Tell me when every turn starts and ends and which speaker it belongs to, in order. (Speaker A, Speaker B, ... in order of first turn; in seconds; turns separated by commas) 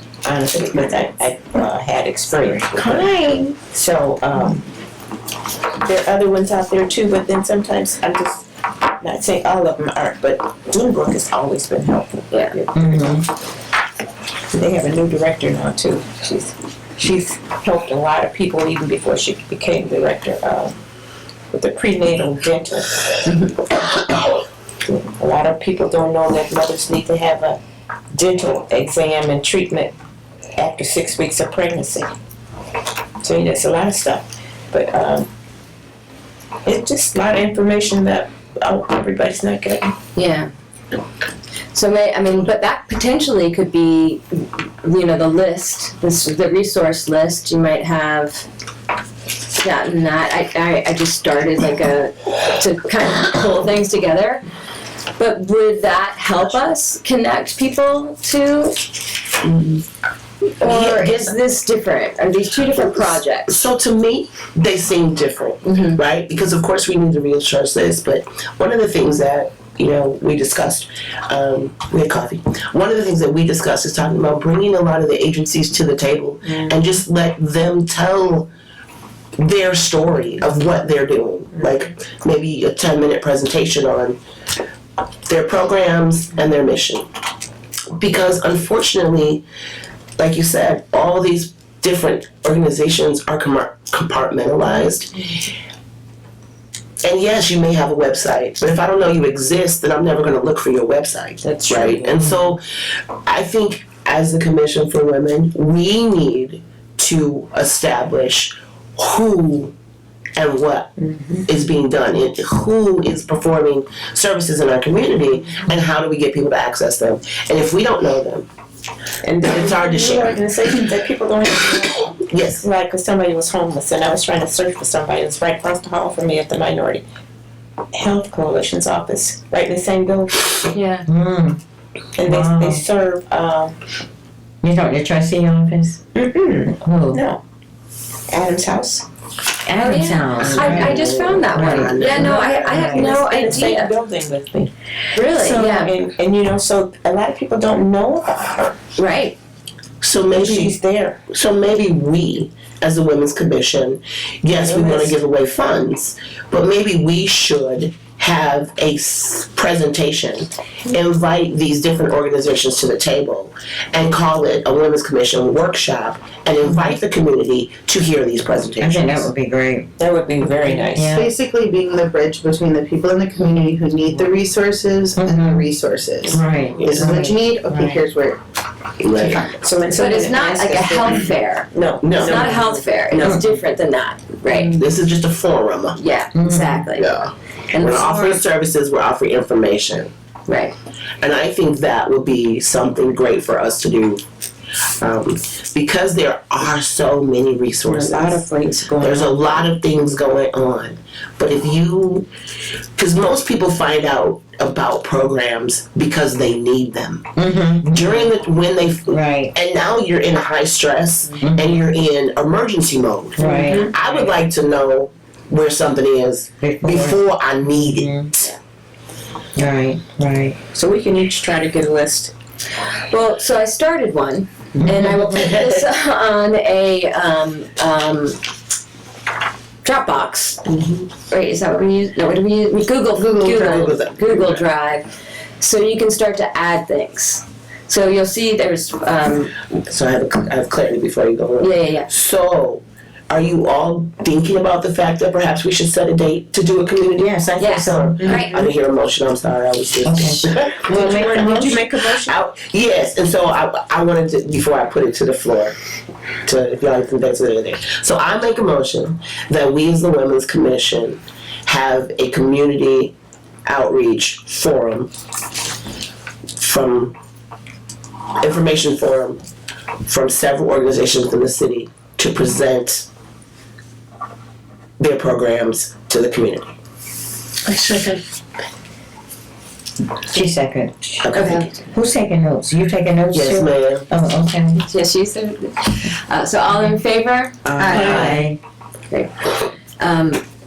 Speaker A: 0.2-4.7, Speaker B: 2.8-3.6, Speaker A: 5.7-13.3, Speaker C: 12.3-12.6, Speaker B: 12.7-13.2, Speaker A: 14.5-20.8, Speaker A: 21.5-23.6, Speaker A: 24.8-27.6, Speaker A: 28.1-29.9, Speaker A: 30.6-32.1, Speaker A: 33.2-35.3, Speaker A: 36.6-39.9, Speaker C: 40.1-40.5, Speaker C: 41.7-48.5, Speaker C: 49.5-54.4, Speaker C: 55.2-58.8, Speaker D: 59.4-59.8, Speaker C: 60.6-63.6, Speaker D: 60.6-61.3, Speaker D: 62.8-78.5, Speaker C: 65.6-66.0, Speaker A: 76.5-76.8, Speaker D: 79.4-84.2, Speaker A: 81.5-81.9, Speaker D: 85.3-87.1, Speaker D: 88.0-89.4, Speaker D: 90.2-95.3, Speaker D: 97.0-109.7, Speaker A: 101.4-102.5, Speaker D: 110.4-110.9, Speaker A: 111.0-111.4, Speaker D: 111.5-118.5, Speaker A: 119.2-127.0, Speaker D: 119.4-120.4, Speaker D: 122.2-122.6, Speaker A: 127.9-130.5, Speaker C: 130.7-131.0, Speaker B: 131.1-131.6, Speaker A: 132.2-133.8, Speaker B: 132.2-132.8, Speaker B: 134.6-136.0, Speaker A: 136.1-137.4, Speaker B: 136.8-137.2, Speaker A: 138.3-139.1, Speaker B: 139.6-143.2, Speaker C: 139.8-143.9, Speaker D: 140.4-142.8, Speaker A: 142.7-148.8, Speaker C: 145.1-145.9, Speaker C: 148.9-149.4, Speaker D: 150.0-169.3, Speaker A: 150.3-151.2, Speaker A: 154.5-155.2, Speaker B: 168.8-169.9, Speaker A: 170.0-171.2, Speaker B: 170.9-171.3, Speaker E: 171.1-178.4, Speaker B: 175.2-175.7, Speaker B: 176.3-177.9, Speaker D: 176.8-177.1, Speaker A: 177.7-177.9, Speaker D: 179.0-179.4, Speaker A: 179.1-183.4, Speaker E: 179.2-179.6, Speaker C: 179.9-184.8, Speaker D: 182.0-182.6, Speaker D: 184.6-186.0, Speaker C: 185.9-187.2, Speaker B: 186.3-186.9, Speaker D: 186.9-190.1, Speaker C: 187.7-188.4, Speaker C: 190.5-190.7, Speaker D: 191.2-194.2, Speaker D: 195.0-198.4, Speaker A: 197.8-199.6, Speaker D: 199.0-202.3, Speaker D: 202.9-207.3, Speaker B: 207.4-208.3, Speaker D: 207.8-218.6, Speaker B: 209.1-209.5, Speaker B: 211.4-211.7, Speaker B: 213.4-213.9, Speaker A: 213.4-214.2, Speaker B: 216.6-218.3, Speaker B: 219.5-220.6, Speaker A: 220.7-222.3, Speaker C: 223.1-228.4, Speaker B: 224.8-225.2, Speaker D: 225.3-225.8, Speaker C: 229.8-230.6, Speaker D: 230.7-231.0, Speaker C: 231.2-235.1, Speaker D: 233.1-234.6, Speaker C: 235.6-239.5, Speaker D: 239.7-251.3, Speaker C: 241.6-242.1, Speaker B: 247.2-248.4, Speaker C: 247.6-248.6, Speaker A: 248.2-248.4, Speaker B: 250.0-251.8, Speaker A: 250.7-252.3, Speaker D: 252.2-255.8, Speaker D: 256.4-263.1, Speaker D: 263.6-265.1, Speaker D: 266.6-267.1, Speaker D: 268.4-269.4, Speaker D: 270.0-273.1, Speaker D: 275.0-276.7, Speaker E: 277.7-278.2, Speaker B: 280.3-284.8, Speaker D: 281.2-281.7, Speaker C: 281.3-281.8, Speaker D: 283.3-284.1, Speaker C: 284.7-288.2, Speaker A: 287.6-288.5, Speaker B: 287.8-288.6, Speaker E: 287.8-288.4, Speaker C: 290.0-290.4